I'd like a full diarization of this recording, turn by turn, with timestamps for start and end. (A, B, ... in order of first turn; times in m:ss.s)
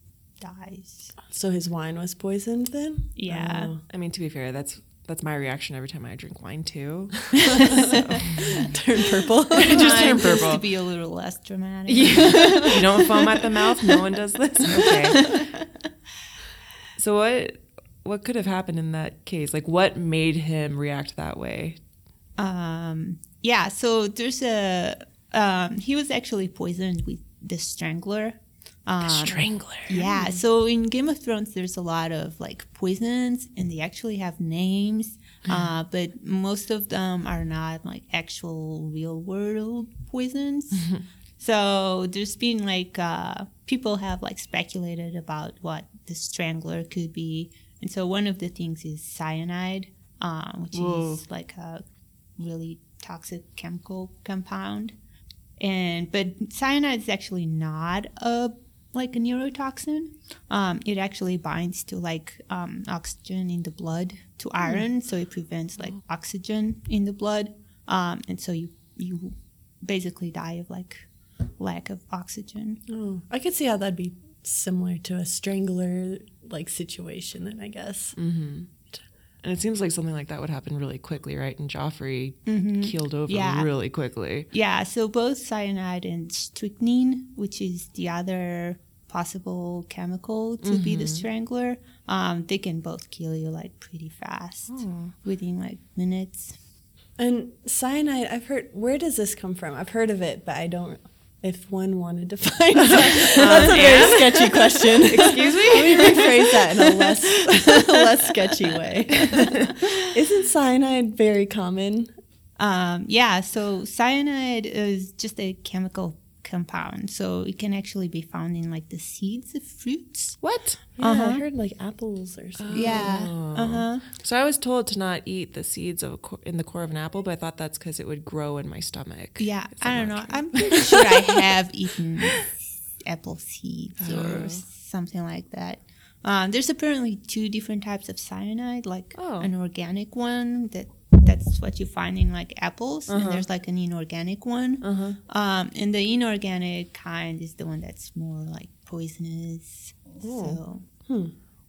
0:00.4-0:01.2 A
0:01.2-0:03.8 B
0:03.2-0:03.7 A
0:03.9-0:08.8 C
0:07.5-0:10.5 B
0:09.5-0:10.7 C
0:09.6-0:13.9 A
0:11.9-0:15.3 C
0:12.4-0:12.8 B
0:14.7-0:15.7 A
0:17.0-0:21.8 C
0:22.4-0:51.8 A
0:29.0-0:30.3 C
0:40.7-0:41.0 C
0:50.7-0:51.2 C
0:52.4-0:54.9 A
0:55.6-1:11.1 A
1:11.6-1:12.8 A
1:12.9-1:18.2 B
1:18.2-1:18.7 C
1:19.4-1:24.5 C
1:22.5-1:23.7 A
1:24.5-1:36.6 A
1:30.6-1:31.3 C
1:34.7-1:35.1 C
1:37.2-1:52.1 B
1:42.8-1:46.3 C
1:43.4-1:44.3 A
1:45.8-1:48.6 A
1:49.2-1:49.8 C
1:49.4-1:50.0 A
1:52.6-2:01.4 A
2:00.4-2:00.8 C
2:01.0-2:03.1 B
2:02.6-2:11.4 C
2:02.7-2:04.0 A
2:09.4-2:30.8 A
2:12.2-2:12.5 C
2:14.0-2:14.6 C
2:19.2-2:19.5 C
2:23.1-2:23.5 C
2:24.8-2:25.2 C
2:30.2-2:30.6 C